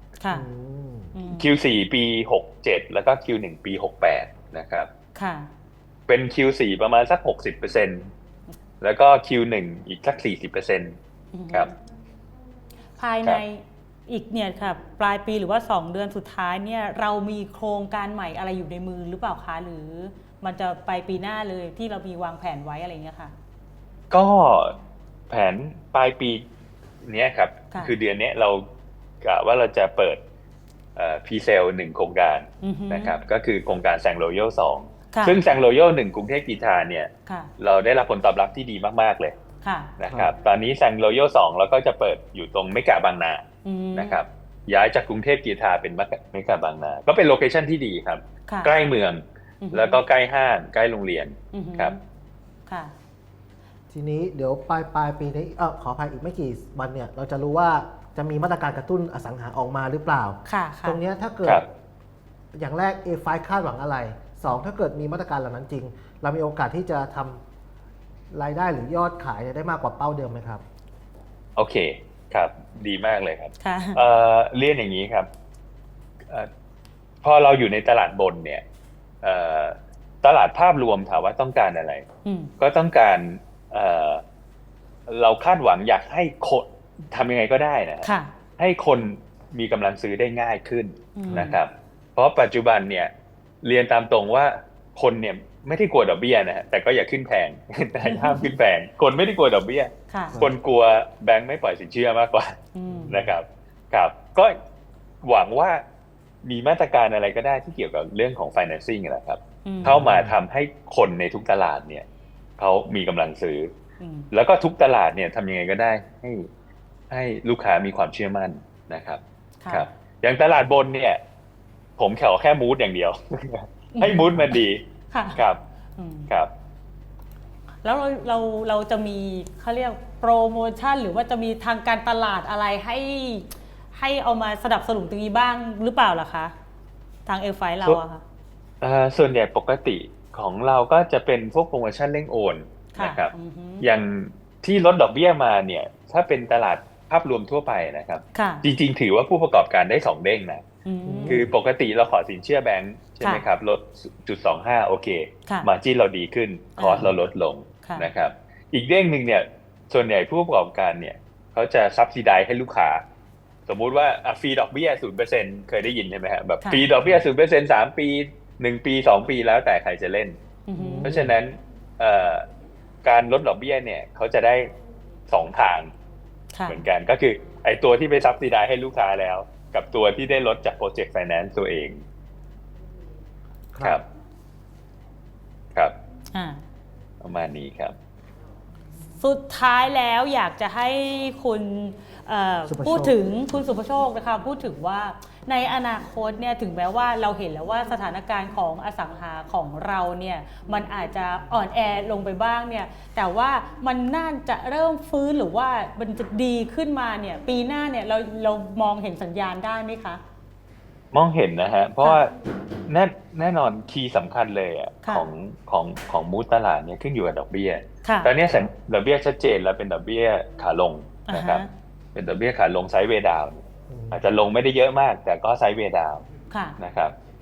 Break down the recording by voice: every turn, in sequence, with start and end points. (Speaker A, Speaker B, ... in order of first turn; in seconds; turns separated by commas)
Speaker A: 0.2-0.5, Speaker B: 0.3-1.2, Speaker A: 1.1-1.5, Speaker C: 1.3-4.9, Speaker A: 5.2-5.5, Speaker C: 6.1-8.1, Speaker C: 8.8-11.0, Speaker A: 11.3-11.7, Speaker A: 13.0-23.3, Speaker C: 24.1-24.8, Speaker C: 25.3-26.4, Speaker C: 27.0-28.6, Speaker C: 29.2-30.2, Speaker C: 31.0-39.4, Speaker A: 32.6-33.2, Speaker A: 35.1-35.4, Speaker A: 37.3-37.5, Speaker A: 39.6-39.9, Speaker C: 40.0-43.4, Speaker B: 40.1-40.3, Speaker A: 43.6-44.2, Speaker C: 43.9-52.0, Speaker A: 48.5-48.7, Speaker A: 49.6-50.0, Speaker A: 51.5-52.0, Speaker A: 52.7-52.9, Speaker B: 53.9-61.6, Speaker A: 60.5-61.0, Speaker B: 62.5-67.4, Speaker B: 68.3-70.6, Speaker C: 71.6-75.3, Speaker A: 73.6-74.0, Speaker C: 77.2-78.6, Speaker C: 79.2-82.0, Speaker A: 82.2-82.5, Speaker C: 82.6-84.2, Speaker C: 85.1-93.1, Speaker A: 88.0-88.3, Speaker A: 91.2-91.6, Speaker B: 91.3-91.5, Speaker C: 93.6-102.6, Speaker A: 98.0-98.5, Speaker A: 100.1-100.4, Speaker A: 102.7-103.2, Speaker B: 102.9-103.3, Speaker C: 103.1-104.6, Speaker C: 105.2-105.8, Speaker C: 106.4-112.0, Speaker A: 109.7-110.1, Speaker B: 109.8-110.3, Speaker C: 112.6-113.7, Speaker A: 114.0-114.3, Speaker C: 114.3-116.5, Speaker C: 117.1-121.2, Speaker A: 119.6-119.9, Speaker C: 122.0-124.8, Speaker A: 124.0-124.6, Speaker A: 125.1-125.4, Speaker C: 125.4-125.6, Speaker A: 126.0-126.3, Speaker A: 127.8-136.5, Speaker A: 137.3-138.2, Speaker C: 138.8-150.6, Speaker A: 142.9-143.9, Speaker A: 148.3-148.7, Speaker A: 150.8-151.4, Speaker B: 151.1-151.5, Speaker C: 151.3-163.0, Speaker A: 156.8-157.1, Speaker A: 157.8-158.1, Speaker C: 163.7-170.4, Speaker A: 166.6-166.9, Speaker A: 170.7-171.2, Speaker B: 170.8-171.3, Speaker C: 171.0-172.4, Speaker C: 173.0-174.7, Speaker C: 175.3-175.9, Speaker A: 176.5-176.8, Speaker C: 176.7-182.0, Speaker B: 183.7-184.0, Speaker A: 186.3-186.6, Speaker C: 187.2-187.9, Speaker A: 189.2-210.2, Speaker B: 192.7-193.2, Speaker C: 211.1-212.3, Speaker C: 212.9-221.6, Speaker A: 218.0-218.3, Speaker A: 221.3-221.7, Speaker C: 222.2-226.3, Speaker B: 223.9-224.2, Speaker A: 226.5-226.8, Speaker C: 226.8-227.1